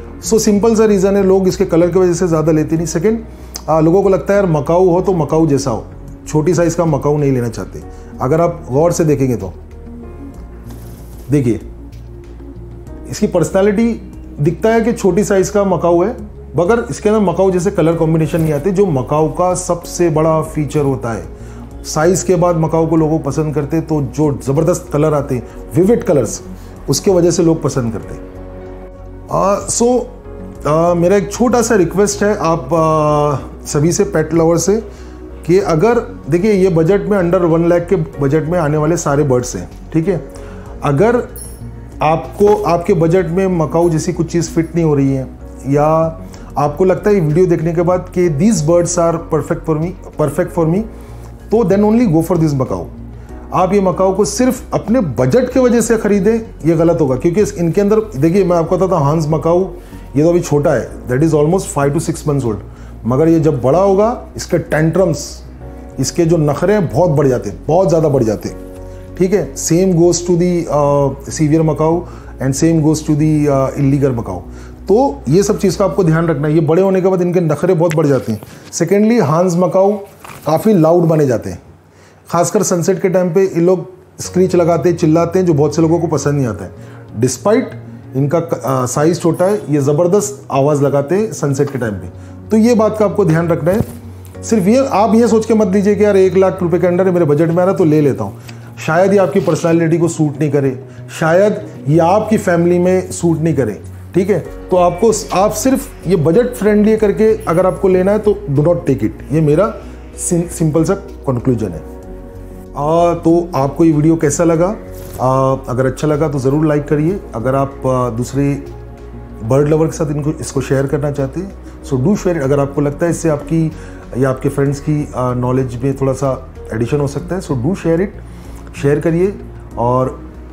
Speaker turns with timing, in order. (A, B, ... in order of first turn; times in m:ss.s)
0:00.2-0:09.6 A
0:11.3-0:11.6 A
0:13.0-0:21.3 A
0:21.8-0:28.2 A
0:29.3-0:34.8 A
0:35.4-0:40.2 A
0:40.8-0:41.3 A
0:42.0-0:50.9 A
0:51.5-0:52.9 A
0:53.5-1:05.4 A
1:06.0-1:08.6 A
1:09.1-1:21.6 A
1:22.3-1:33.8 A
1:34.4-1:51.8 A
1:52.7-1:58.7 A
1:59.4-2:10.2 A